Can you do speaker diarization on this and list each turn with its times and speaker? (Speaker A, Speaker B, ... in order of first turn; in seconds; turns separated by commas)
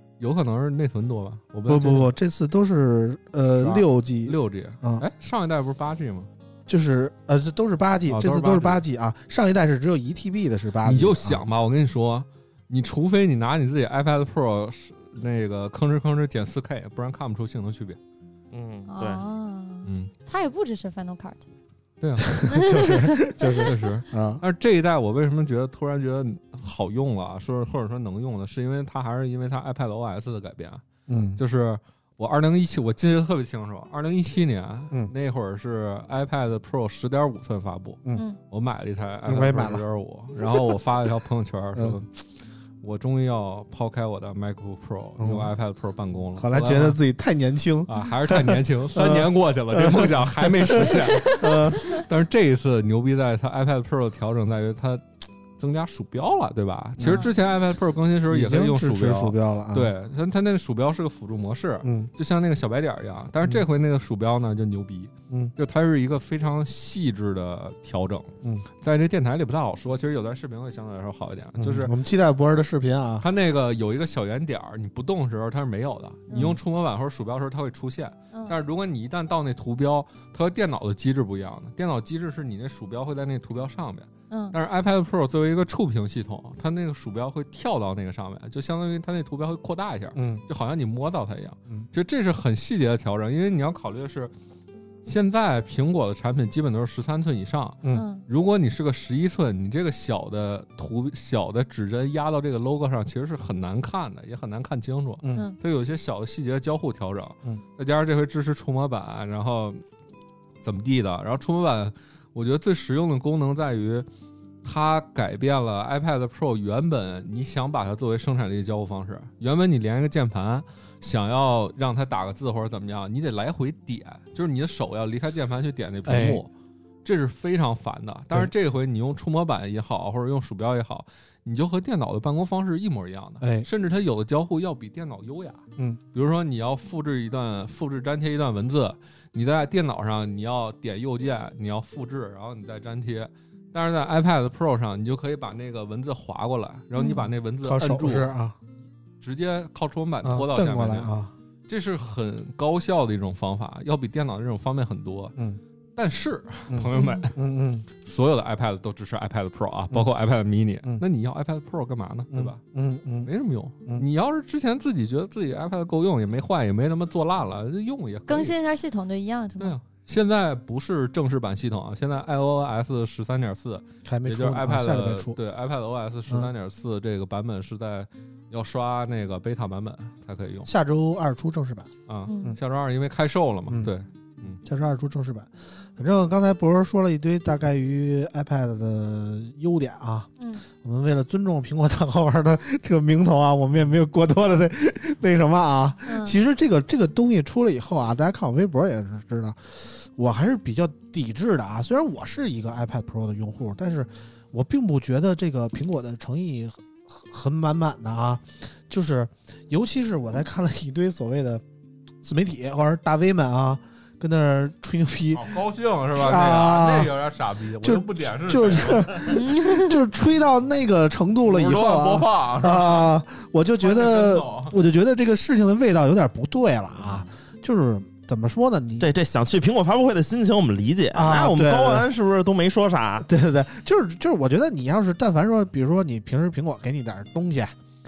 Speaker A: 0.2-2.1, Speaker B: 1.7-5.1, Speaker A: 3.5-6.3, Speaker B: 6.7-11.4, Speaker A: 8.1-8.8, Speaker A: 10.8-18.0, Speaker C: 18.5-19.2, Speaker D: 18.9-21.5, Speaker A: 19.9-20.1, Speaker A: 22.0-22.4, Speaker B: 22.3-24.4, Speaker D: 22.5-23.4, Speaker A: 23.6-30.8, Speaker B: 31.1-31.4, Speaker A: 31.4-42.2, Speaker B: 39.3-39.8, Speaker B: 40.4-40.8, Speaker A: 42.8-47.0, Speaker B: 45.2-45.5, Speaker B: 46.4-51.9, Speaker A: 47.9-55.0, Speaker A: 55.6-71.9, Speaker B: 57.0-57.3, Speaker D: 57.1-57.3, Speaker B: 58.3-59.9, Speaker B: 61.8-62.1, Speaker B: 71.6-73.3, Speaker A: 73.2-94.3, Speaker B: 76.3-76.6, Speaker D: 84.3-84.5, Speaker B: 90.2-90.4, Speaker A: 95.0-109.8, Speaker D: 97.9-98.2, Speaker A: 110.6-114.1, Speaker A: 114.6-126.5, Speaker B: 126.0-126.4, Speaker A: 127.0-148.3, Speaker B: 133.4-133.7, Speaker D: 147.0-147.3, Speaker B: 147.6-148.6, Speaker A: 149.2-151.1, Speaker B: 150.2-151.3, Speaker A: 151.7-155.3, Speaker A: 156.0-157.4, Speaker B: 156.7-157.9, Speaker D: 156.9-157.3, Speaker A: 158.0-162.6, Speaker B: 162.3-163.3, Speaker A: 163.2-168.6, Speaker D: 168.3-169.8, Speaker A: 169.6-180.7, Speaker B: 174.1-175.4, Speaker B: 180.7-181.9, Speaker A: 182.1-184.6, Speaker D: 182.3-182.6, Speaker B: 184.6-211.6, Speaker D: 190.4-190.6, Speaker D: 196.1-196.3, Speaker B: 212.2-215.6, Speaker A: 215.3-219.3, Speaker B: 216.1-217.1, Speaker B: 217.8-229.1, Speaker D: 219.2-220.0, Speaker A: 221.4-223.2, Speaker A: 223.8-224.8, Speaker A: 227.0-227.3, Speaker C: 229.0-233.3, Speaker B: 231.1-232.1, Speaker B: 233.2-237.7